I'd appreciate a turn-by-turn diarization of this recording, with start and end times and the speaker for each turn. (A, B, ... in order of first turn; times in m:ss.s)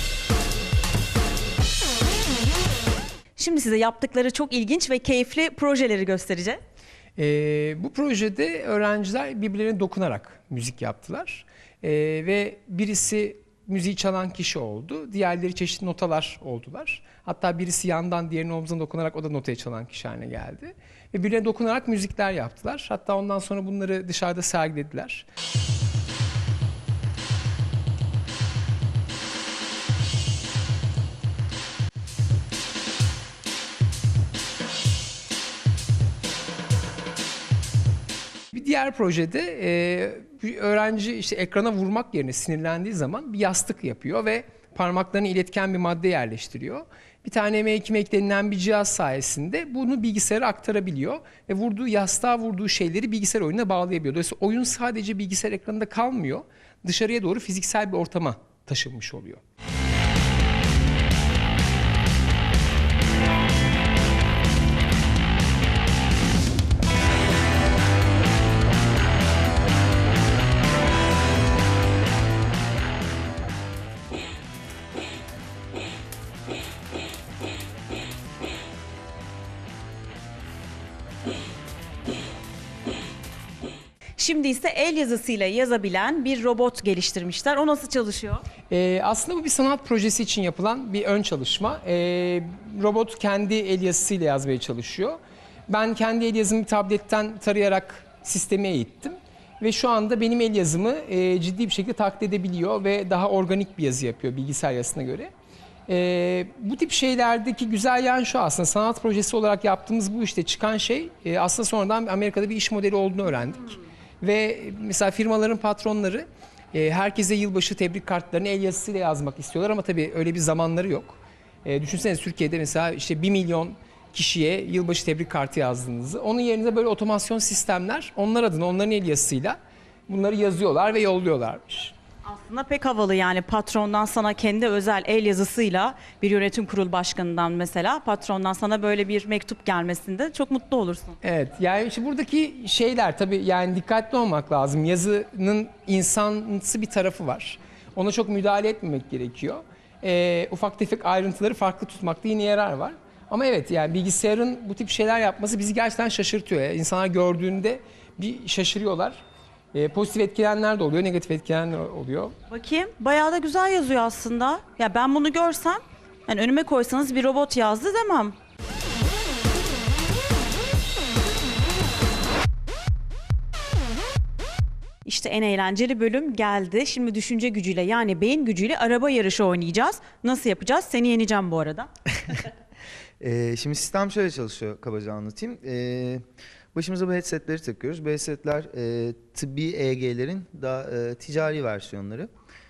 0:03.4-0:06.6 A
0:07.2-0:25.2 B
0:38.5-0:59.4 B
1:24.2-1:28.4 A
1:28.7-1:45.3 B
1:45.9-2:09.6 B
2:10.1-2:11.9 B
2:12.2-2:21.2 A
2:21.2-2:42.3 B
2:42.5-2:48.4 A
2:55.0-3:01.9 A
3:03.2-3:12.3 C